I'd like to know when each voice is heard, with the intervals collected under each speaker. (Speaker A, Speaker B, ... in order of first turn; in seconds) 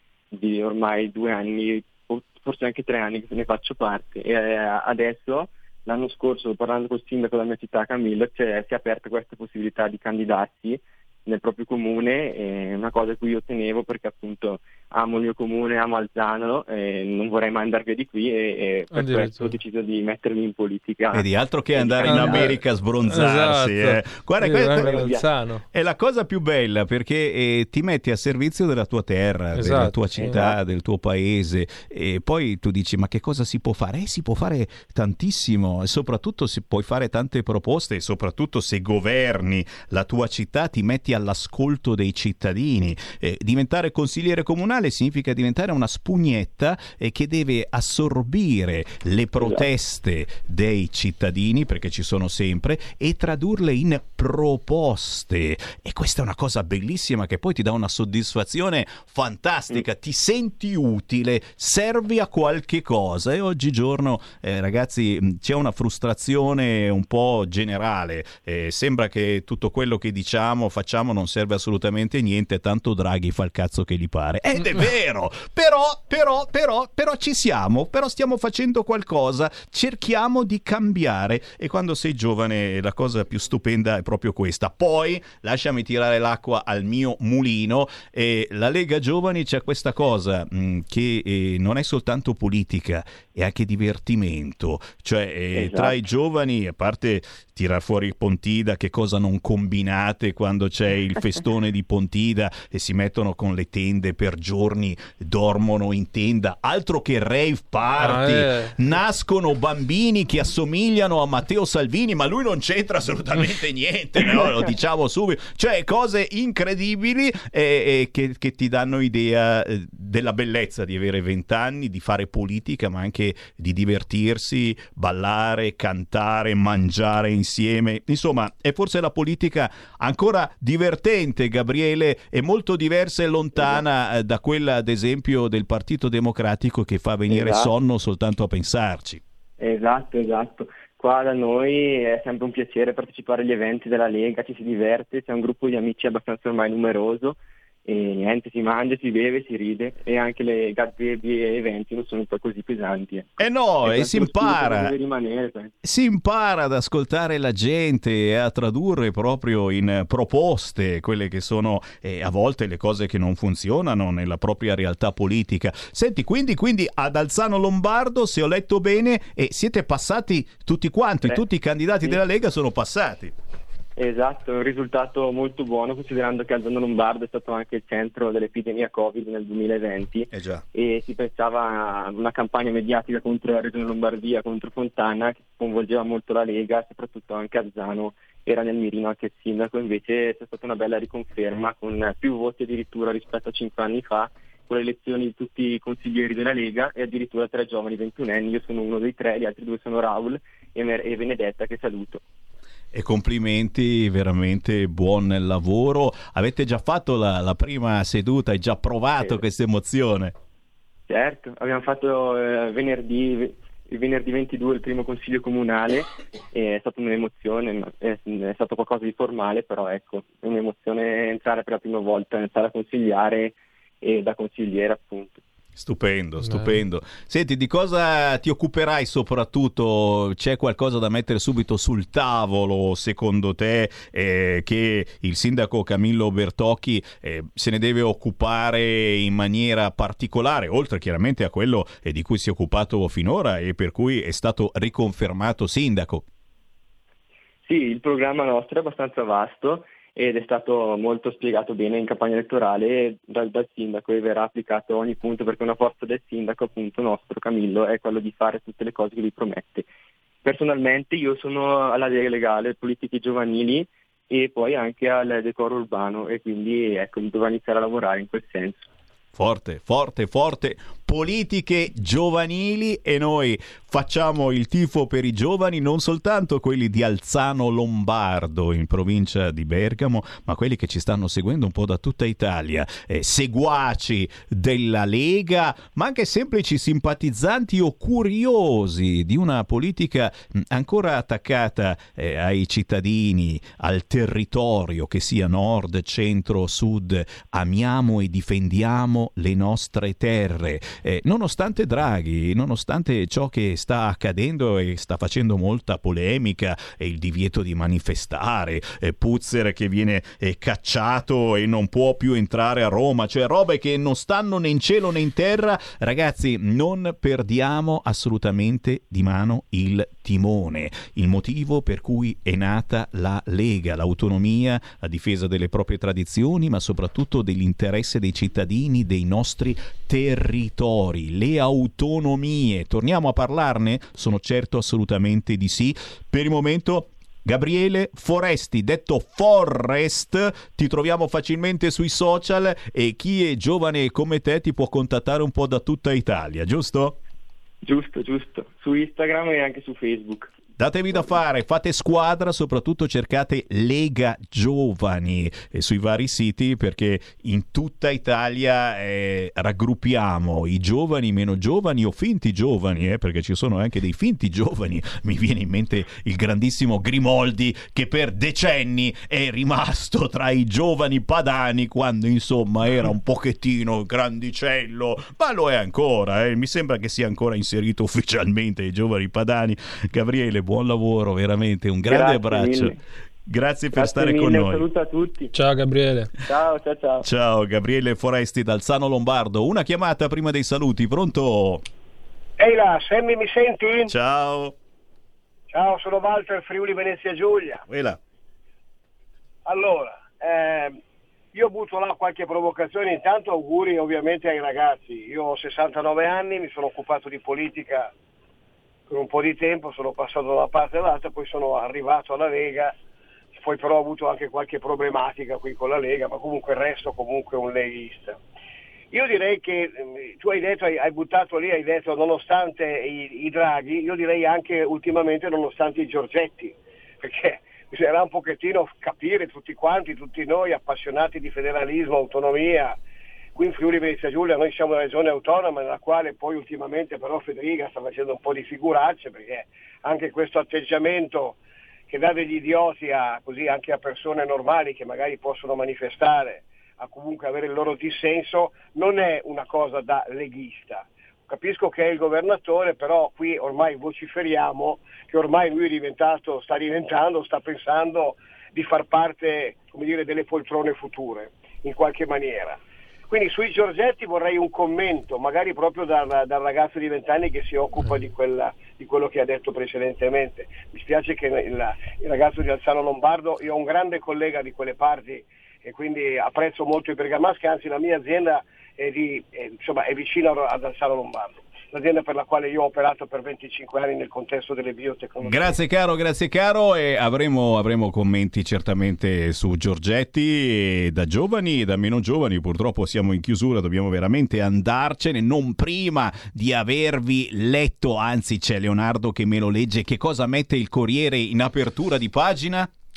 Speaker A: 0.3-22.6, 24.7-25.2, 30.2-30.6, 95.5-96.0, 137.3-137.7, 139.6-155.7, 174.0-202.2, 211.1-225.4, 247.7-259.9, 260.4-268.9, 347.8-350.5, 382.1-383.0, 383.9-385.5, 386.5-387.3
Speaker B: 18.9-19.6, 22.0-25.6, 29.5-30.5, 108.0-108.9, 226.4-226.8, 385.5-386.3
Speaker C: 21.1-25.2, 25.7-139.2, 153.4-154.9, 155.8-173.3, 180.3-180.6, 202.9-210.3, 225.8-246.2, 269.4-347.2, 350.8-384.9, 387.2-391.8, 394.1-394.8, 397.9-398.2, 485.4-502.9
Speaker D: 392.6-394.1, 395.7-397.9, 399.6-401.0, 401.5-408.1, 409.1-412.9, 413.5-418.4, 419.1-433.0, 433.6-441.6, 442.1-485.8